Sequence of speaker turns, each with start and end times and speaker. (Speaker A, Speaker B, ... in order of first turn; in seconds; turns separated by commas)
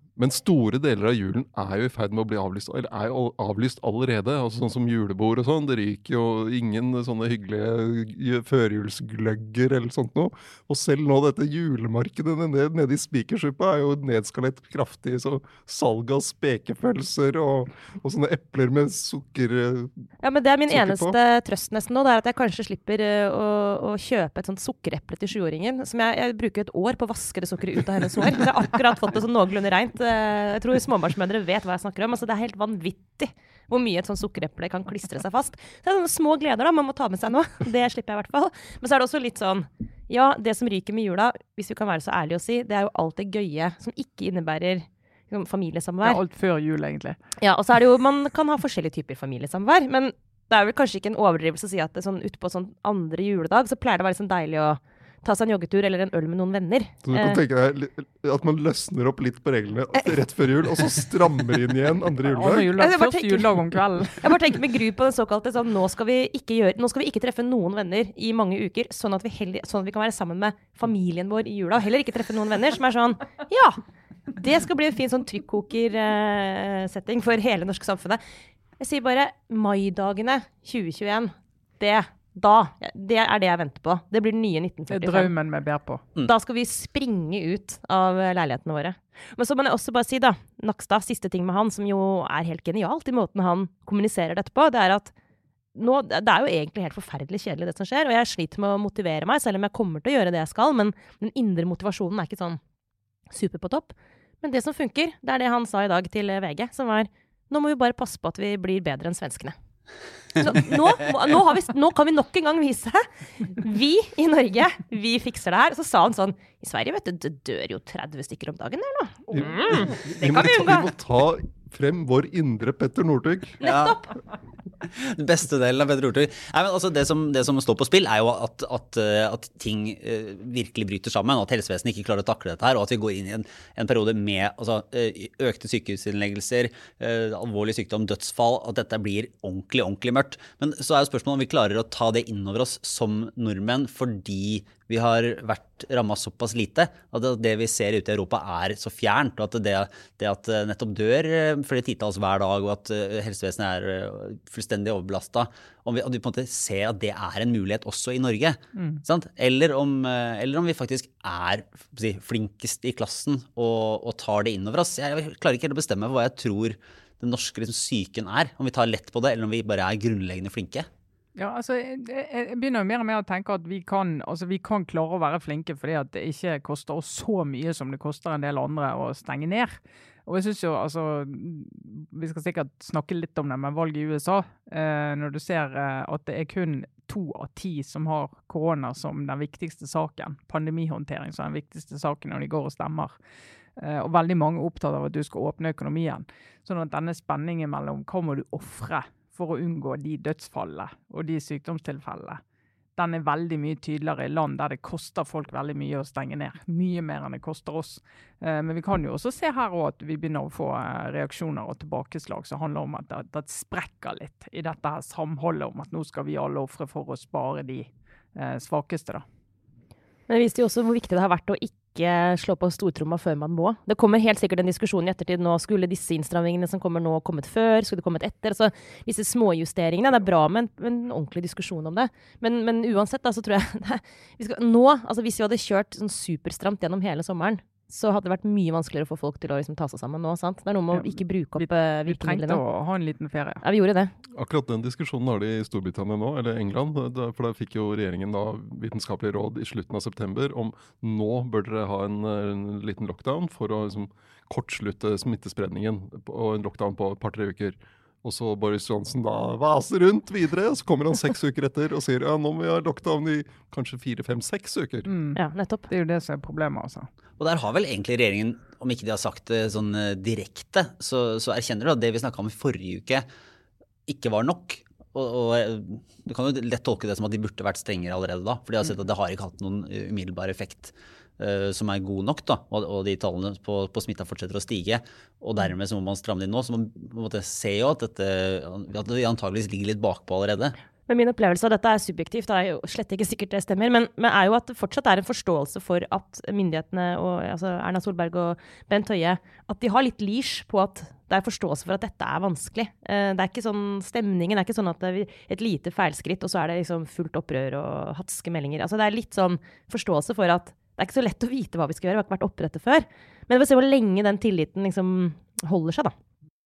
Speaker A: 0.2-20.1, Speaker B: 20.2-46.2, Speaker A: 20.7-21.2, Speaker C: 46.0-47.2, Speaker B: 47.4-57.4, Speaker A: 57.0-62.7, Speaker C: 62.3-64.2, Speaker B: 62.7-63.6, Speaker B: 64.2-73.8, Speaker B: 74.3-78.2, Speaker B: 78.8-85.3, Speaker C: 84.9-86.0, Speaker B: 86.2-95.1, Speaker B: 95.8-102.6, Speaker B: 103.3-109.5, Speaker B: 110.4-120.9, Speaker A: 119.3-123.6, Speaker D: 123.6-124.0, Speaker B: 123.6-124.1, Speaker D: 124.8-170.9, Speaker C: 158.8-159.0, Speaker C: 171.4-193.2, Speaker C: 193.8-202.4, Speaker C: 203.0-219.2, Speaker B: 220.3-242.6, Speaker C: 240.9-243.6, Speaker B: 243.6-244.1, Speaker A: 244.3-265.1, Speaker C: 265.1-267.1, Speaker B: 265.4-265.9, Speaker D: 267.4-273.3, Speaker D: 274.1-290.8, Speaker B: 291.1-316.1